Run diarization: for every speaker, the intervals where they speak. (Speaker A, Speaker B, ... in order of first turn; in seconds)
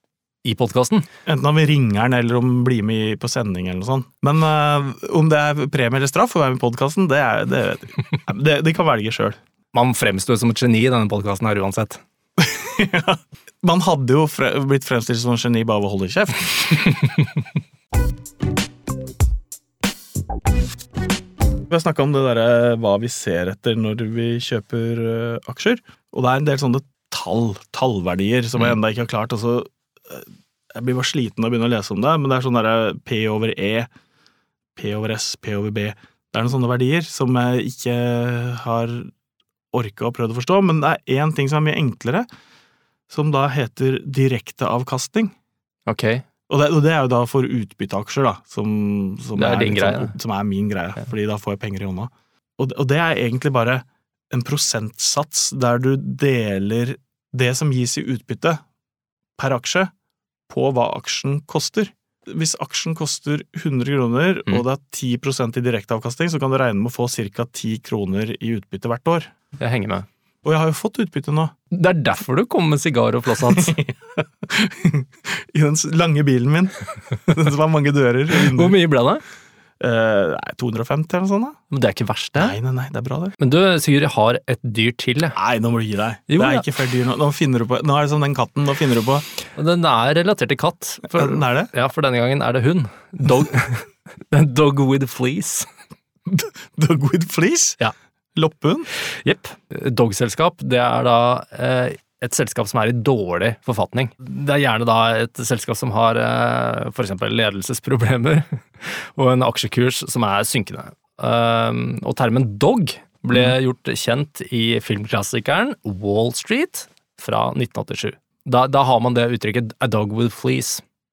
Speaker A: 0.4-1.1, 9.7-12.0, 45.9-46.2, 49.4-50.1, 69.6-70.1, 71.7-73.8, 78.4-79.2, 81.7-82.6, 83.4-85.4, 86.3-86.7, 89.6-95.7, 99.0-120.8
Speaker B: 1.3-9.4, 12.4-16.8, 21.7-33.9, 34.8-39.1, 39.7-42.3, 43.1-45.3, 46.5-58.6, 59.4-59.9, 60.5-69.3, 70.4-71.5, 73.5-78.8, 79.8-81.6, 82.4-83.3, 85.4-89.3, 91.1-91.7, 96.3-97.8, 98.3-98.9